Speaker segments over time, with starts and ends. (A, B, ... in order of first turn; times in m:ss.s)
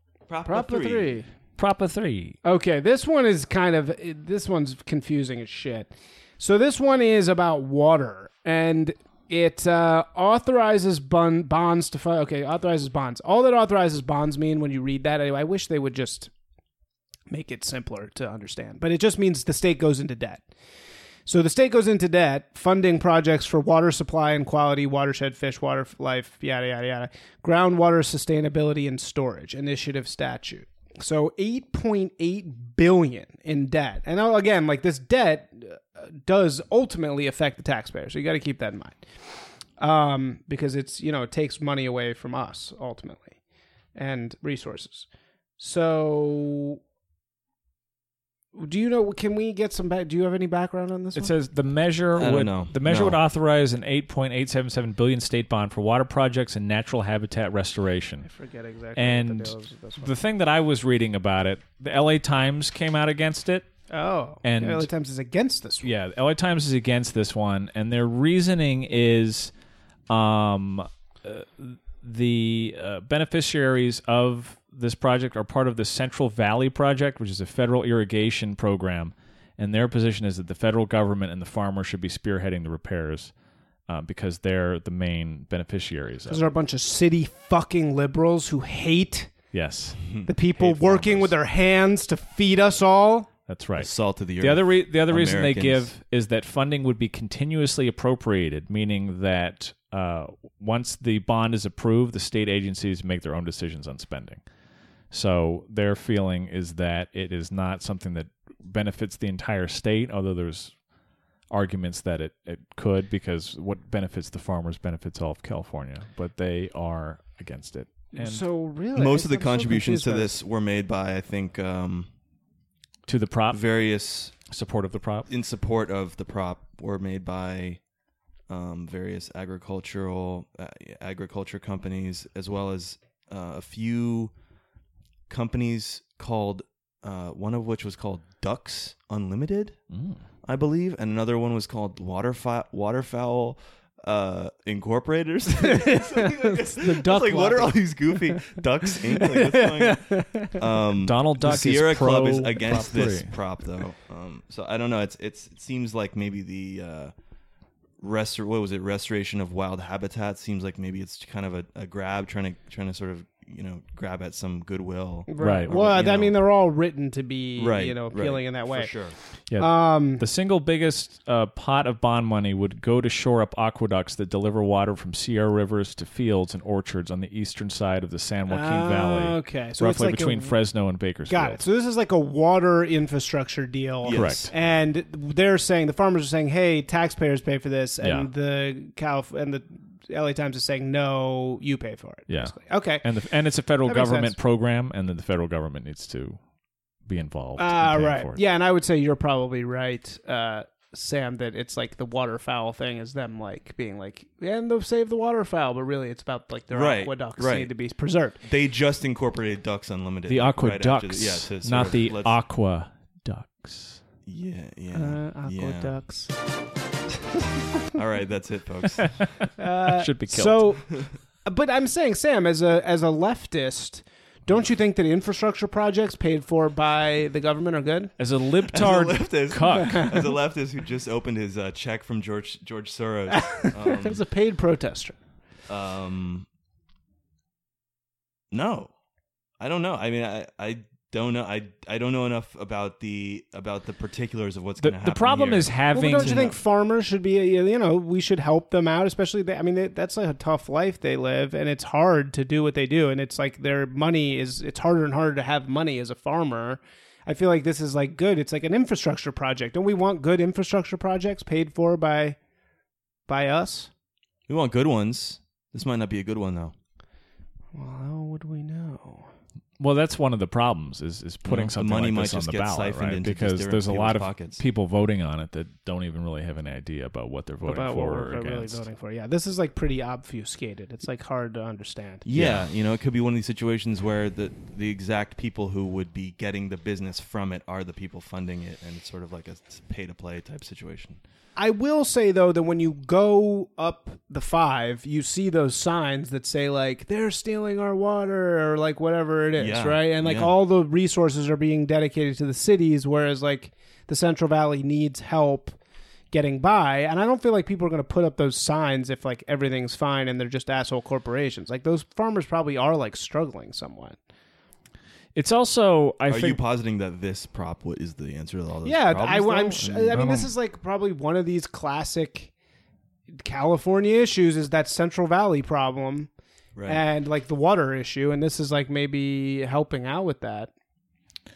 0:00.3-0:01.2 A
0:00.4-0:01.3 B
0:01.6-0:02.4 C
0:02.4-0:16.3 B
0:17.3-0:20.5 B
0:21.3-0:39.1 B
0:39.8-0:43.4 B
0:44.0-0:45.1 B
0:45.6-0:46.8 B
0:48.5-0:51.3 B
0:51.2-0:58.3 C
0:52.2-0:53.2 A
0:58.2-1:00.2 B
0:59.0-1:03.7 C
1:03.9-1:05.9 B
1:04.4-1:04.9 C
1:05.8-1:09.5 C
1:10.1-1:23.3 C
1:23.9-1:26.5 C
1:26.3-1:29.3 B
1:29.5-1:31.3 C
1:30.3-1:33.3 B
1:33.5-1:44.4 C
1:33.8-1:35.9 A
1:45.1-1:50.8 C
1:51.5-1:58.4 C
1:58.1-2:00.3 B
1:58.9-2:02.1 A
2:03.1-2:03.8 C
2:03.5-2:04.4 A
2:04.5-2:05.3 C
2:05.3-2:07.8 A
2:08.5-2:14.3 A
2:15.3-2:19.8 A
2:19.9-2:20.2 C
2:20.4-2:37.1 A
2:25.6-2:30.6 B
2:31.0-2:33.4 C
2:38.0-2:46.4 A
2:45.3-2:50.2 B
2:45.4-2:45.8 C
2:47.6-2:49.2 A
2:49.5-3:01.6 C
2:58.5-3:00.6 B
3:01.3-3:13.1 B
3:04.0-3:04.5 A
3:04.1-3:04.5 C
3:08.0-3:08.3 C
3:12.3-3:16.4 C
3:13.8-3:14.4 B
3:17.1-3:18.4 C
3:17.6-3:28.4 B
3:26.7-3:27.7 A
3:28.4-3:32.4 A
3:30.3-3:34.0 C
3:34.2-3:35.9 A
3:34.9-3:36.3 B
3:37.9-3:39.2 A
3:39.6-3:48.1 B
3:39.9-3:40.7 C
3:48.2-3:50.2 C
3:48.7-3:54.2 A
3:49.8-3:50.1 B
3:53.3-3:55.2 B
3:55.7-3:56.5 A
3:58.5-3:58.9 A
3:59.6-4:06.6 A
4:04.8-4:06.5 C
4:05.9-4:22.4 B
4:23.3-4:23.9 B
4:24.5-4:26.7 A
4:27.7-4:29.3 B
4:29.8-4:38.8 C
4:31.4-4:34.6 A
4:37.7-4:42.2 B
4:42.2-4:51.2 A
4:42.3-4:42.6 C
4:51.6-5:05.8 B
4:59.6-5:00.5 A
5:06.3-5:14.2 B
5:15.4-5:16.6 C
5:16.3-5:20.4 A
5:18.8-5:22.5 B
5:20.2-5:20.4 C
5:23.4-5:26.3 B
5:26.8-5:27.0 A
5:26.9-5:30.7 B